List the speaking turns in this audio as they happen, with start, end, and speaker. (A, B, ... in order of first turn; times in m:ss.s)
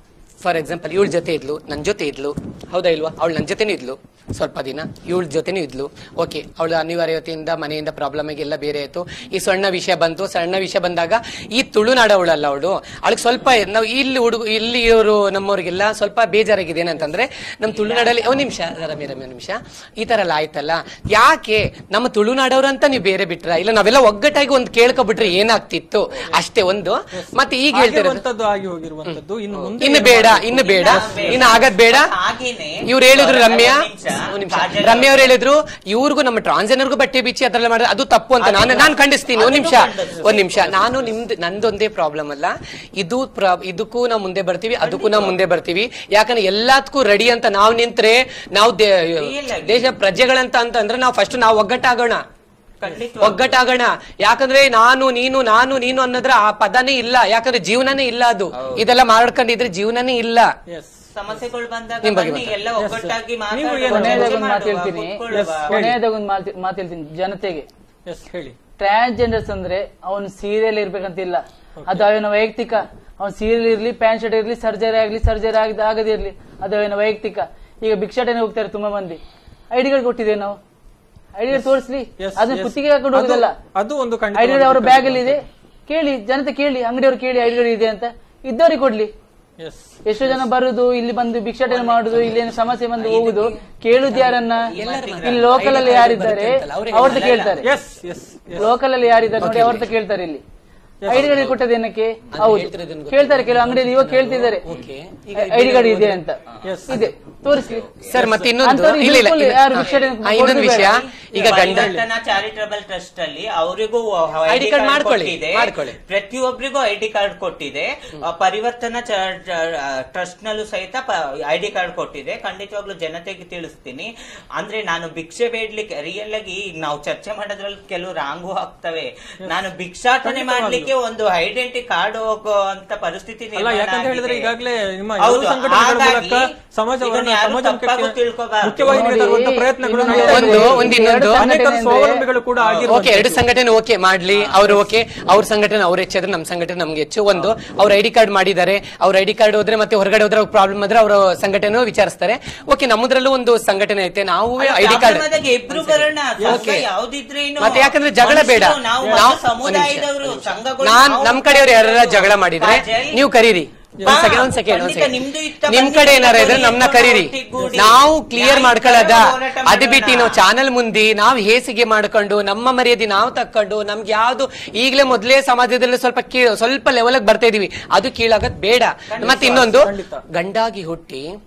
0:00.4-0:28.2 A
0:27.1-0:31.6 B
0:29.8-0:32.1 A
0:30.5-0:35.3 C
0:32.8-0:52.2 A
0:38.4-0:41.1 C
0:40.1-0:40.4 B
0:44.8-0:45.4 C
0:49.2-0:50.0 C
0:52.8-0:53.6 C
0:53.2-1:00.5 A
0:58.6-0:58.9 C
1:00.7-1:01.4 B
1:01.1-1:05.8 C
1:02.0-1:02.5 A
1:02.8-1:04.4 B
1:03.9-1:07.7 D
1:05.3-1:06.0 B
1:08.0-1:08.6 B
1:08.8-1:19.2 D
1:11.8-1:12.0 B
1:19.7-1:20.6 D
1:21.4-1:23.5 D
1:21.5-1:25.4 B
1:24.3-1:29.1 D
1:29.6-1:30.4 B
1:30.0-1:34.7 D
1:31.7-1:32.4 C
1:32.9-1:33.6 C
1:34.1-1:35.9 C
1:34.7-1:37.2 A
1:35.2-1:37.7 D
1:37.0-1:37.6 C
1:37.6-1:38.7 B
1:38.6-1:40.4 D
1:39.4-1:39.9 A
1:41.0-1:41.6 B
1:41.1-1:44.6 D
1:41.1-1:41.5 A
1:42.3-1:46.2 A
1:45.3-1:47.9 D
1:46.5-1:46.8 C
1:46.6-1:47.0 B
1:47.5-1:48.3 C
1:48.1-1:51.9 A
1:48.1-1:48.6 B
1:48.6-1:51.0 D
1:50.7-2:14.5 C
1:51.3-1:52.0 B
1:54.5-1:56.0 A
2:10.2-2:10.9 B
2:13.6-2:23.4 B
2:15.2-2:19.2 C
2:18.9-2:22.2 D
2:20.1-2:21.4 A
2:22.7-2:36.8 A
2:24.3-2:24.8 B
2:34.6-2:43.2 C
2:36.4-2:36.8 B
2:37.6-3:01.2 A
2:39.0-2:39.3 B
2:44.0-2:44.3 B
2:44.0-2:50.4 C
2:59.1-2:59.7 C
2:59.2-3:00.2 B